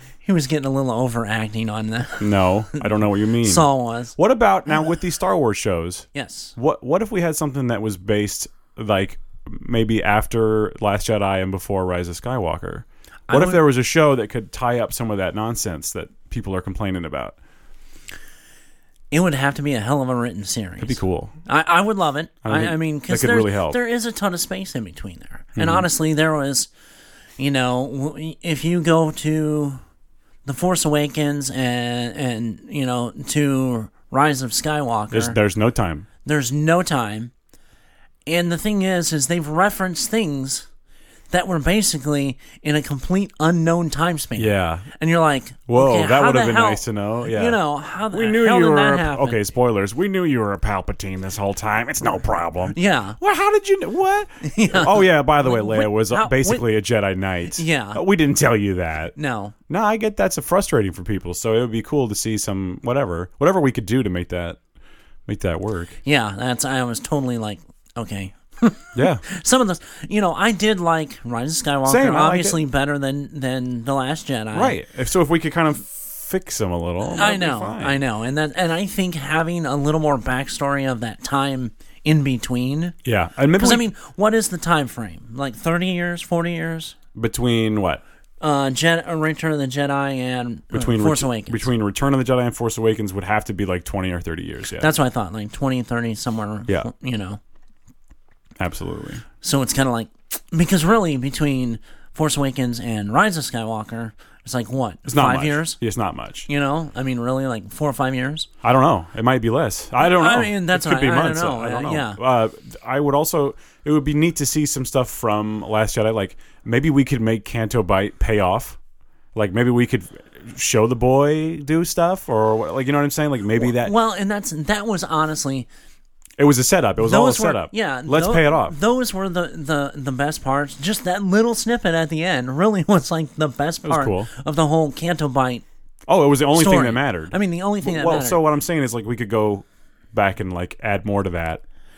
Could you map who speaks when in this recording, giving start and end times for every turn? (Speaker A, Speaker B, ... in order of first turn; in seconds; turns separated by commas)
Speaker A: 0.2-4.2, Speaker B: 2.2-17.4, Speaker A: 6.1-6.5, Speaker A: 13.3-13.6, Speaker A: 19.1-26.7, Speaker B: 20.8-21.3, Speaker B: 22.4-23.8, Speaker B: 25.6-25.9, Speaker A: 27.4-29.8, Speaker A: 30.5-35.4, Speaker B: 35.1-36.1, Speaker A: 36.2-37.3, Speaker A: 38.3-40.7, Speaker A: 41.3-49.4, Speaker B: 44.4-44.9, Speaker B: 45.7-47.6, Speaker B: 48.1-59.1, Speaker A: 52.7-53.2, Speaker A: 54.4-56.6, Speaker A: 57.5-58.0, Speaker A: 59.2-59.5, Speaker B: 59.7-64.6, Speaker B: 65.3-66.0, Speaker A: 66.0-74.8, Speaker B: 69.0-69.2, Speaker B: 71.8-72.6, Speaker B: 74.5-78.0, Speaker A: 77.1-83.0, Speaker B: 83.0-83.9, Speaker A: 83.5-87.0, Speaker B: 87.2-88.0, Speaker A: 88.4-91.7, Speaker B: 90.7-94.9, Speaker A: 94.8-97.4, Speaker B: 98.6-99.2, Speaker A: 99.4-105.8, Speaker B: 105.1-106.5, Speaker A: 106.5-108.5, Speaker B: 108.6-118.8, Speaker A: 110.0-112.2, Speaker B: 119.3-123.9, Speaker A: 123.6-125.7, Speaker B: 126.4-128.8, Speaker A: 127.0-135.6, Speaker B: 133.8-134.3, Speaker B: 136.1-141.6, Speaker A: 136.5-138.4